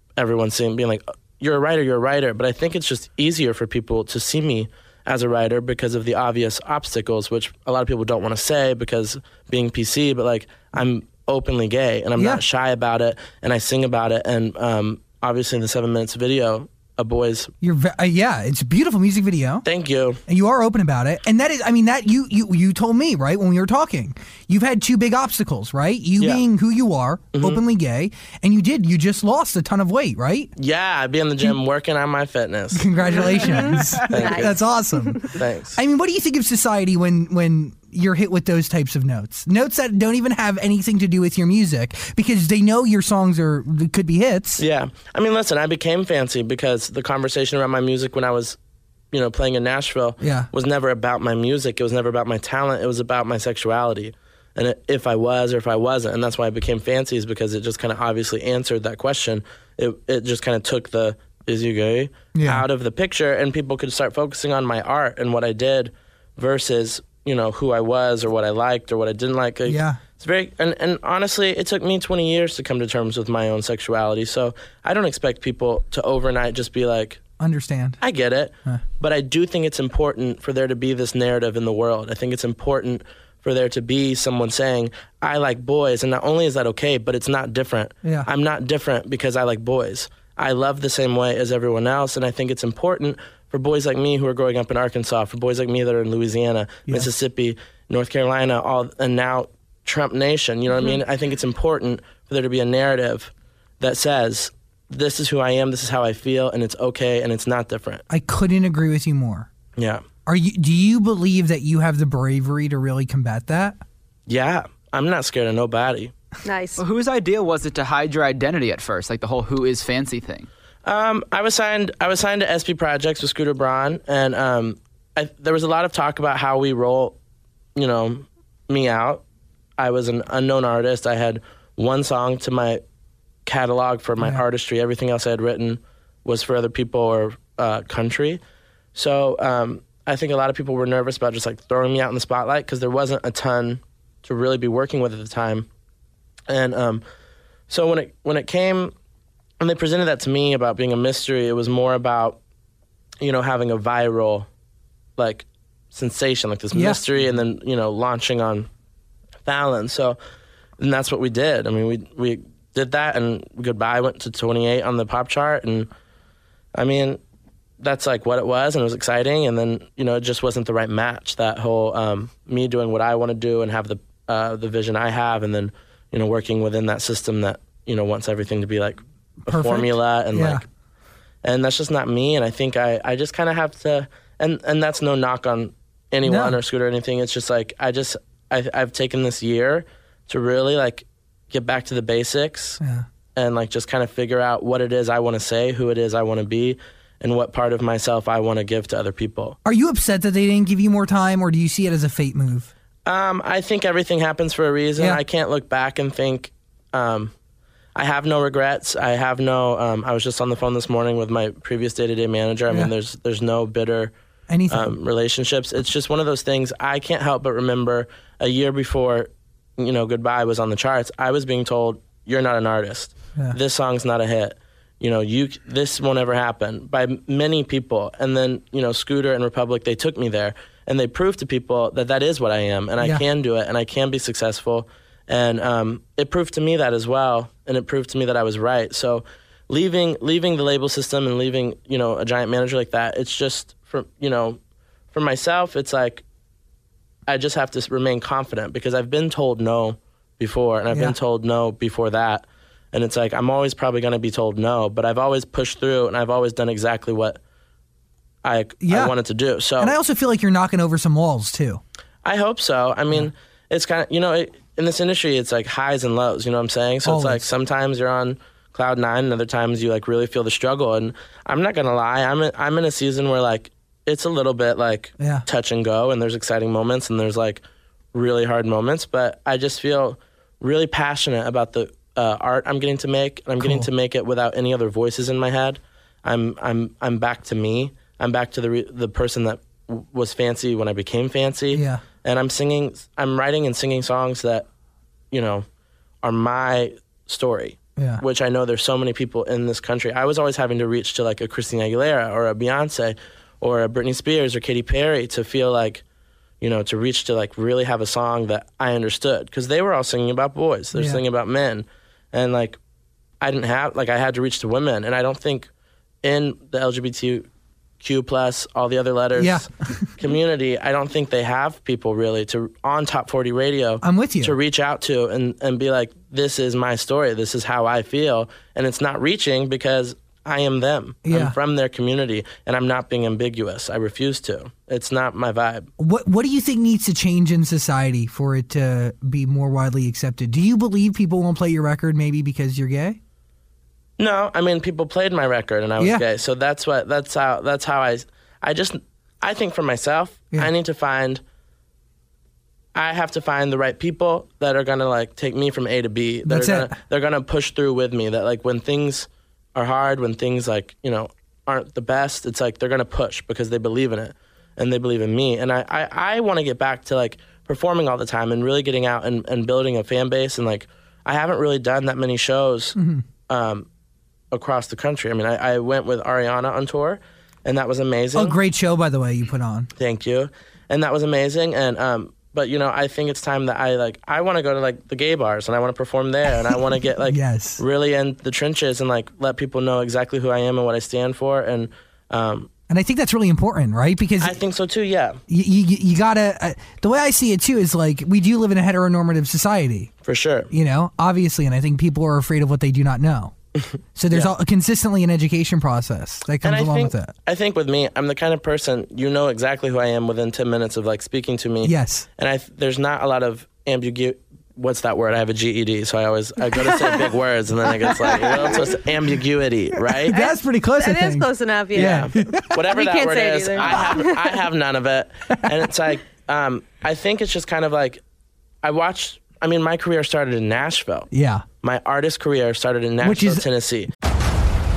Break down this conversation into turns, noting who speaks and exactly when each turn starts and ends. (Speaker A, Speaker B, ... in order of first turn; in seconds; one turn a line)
Speaker A: 0.2-17.5
Speaker B: 12.2-12.4
Speaker B: 17.6-19.6
Speaker A: 19.6-20.2
Speaker B: 20.3-30.5
Speaker A: 26.2-26.4
Speaker A: 27.3-27.6
Speaker A: 30.6-32.9
Speaker B: 32.7-44.6
Speaker C: 33.5-35.3
Speaker A: 34.1-34.6
Speaker A: 35.3-35.8
Speaker A: 44.6-48.6
Speaker A: 49.1-77.2
Speaker B: 50.2-50.5
Speaker B: 62.3-62.7
Speaker B: 69.7-70.0
Speaker B: 77.4-78.0
Speaker A: 78.0-108.0
Speaker B: 108.1-109.5
Speaker A: 109.8-110.0
Speaker B: 110.3-113.8
Speaker A: 114.3-116.1
Speaker C: 116.4-116.8
Speaker D: 116.8-120.5
Speaker A: 120.8-127.2
Speaker A: 127.8-129.2
Speaker A: 129.8-132.8
Speaker A: 133.5-138.4
Speaker A: 138.9-145.7
Speaker A: 146.5-147.0
Speaker A: 147.7-148.9
Speaker A: 149.6-152.4
Speaker A: 153.2-154.5
Speaker A: 155.2-158.7
Speaker B: 156.7-157.0
Speaker A: 159.4-160.2
Speaker A: 160.8-165.9
Speaker A: 166.8-167.2
Speaker A: 167.8-180.6
Speaker B: 179.4-180.6
Speaker A: 181.4-192.8
Speaker B: 186.3-186.6
Speaker B: 192.8-193.1
Speaker A: 193.3-199.6
Speaker B: 199.7-202.7
Speaker A: 203.1-207.3
Speaker A: 207.9-214.1
Speaker B: 214.5-214.9
Speaker A: 214.7-244.6
Speaker A: 245.1-246.2
Speaker A: 247.3-257.4
Speaker A: 258.4-260.0
Speaker B: 258.8-259.1
Speaker B: 259.8-261.8
Speaker A: 262.2-294.7
Speaker B: 267.1-267.4
Speaker B: 275.2-275.4
Speaker B: 283.6-283.9
Speaker B: 291.7-292.0
Speaker A: 295.3-295.6
Speaker A: 296.2-306.0
Speaker B: 298.0-298.2
Speaker A: 306.6-312.8
Speaker B: 310.9-311.2
Speaker A: 313.4-315.7
Speaker A: 316.2-317.5
Speaker A: 318.0-335.9
Speaker B: 319.4-320.1
Speaker B: 324.0-324.6
Speaker B: 331.2-331.6
Speaker B: 336.0-343.2
Speaker A: 344.2-351.4
Speaker A: 352.9-373.0
Speaker B: 356.4-357.0
Speaker B: 373.0-373.2
Speaker A: 373.5-373.9
Speaker A: 374.5-378.6
Speaker B: 378.4-379.9
Speaker A: 380.0-392.7
Speaker B: 387.3-387.8
Speaker B: 392.9-394.6
Speaker A: 394.4-395.4
Speaker B: 395.5-400.1
Speaker A: 400.2-400.7
Speaker B: 400.7-403.5
Speaker A: 403.8-404.5
Speaker B: 404.1-407.3
Speaker A: 406.6-420.4
Speaker B: 411.8-412.3
Speaker C: 416.7-417.3
Speaker B: 420.1-422.8
Speaker C: 420.3-424.6
Speaker A: 421.9-428.2
Speaker D: 423.8-424.1
Speaker A: 428.8-431.3
Speaker B: 431.3-431.6
Speaker A: 431.8-434.1
Speaker B: 433.2-433.7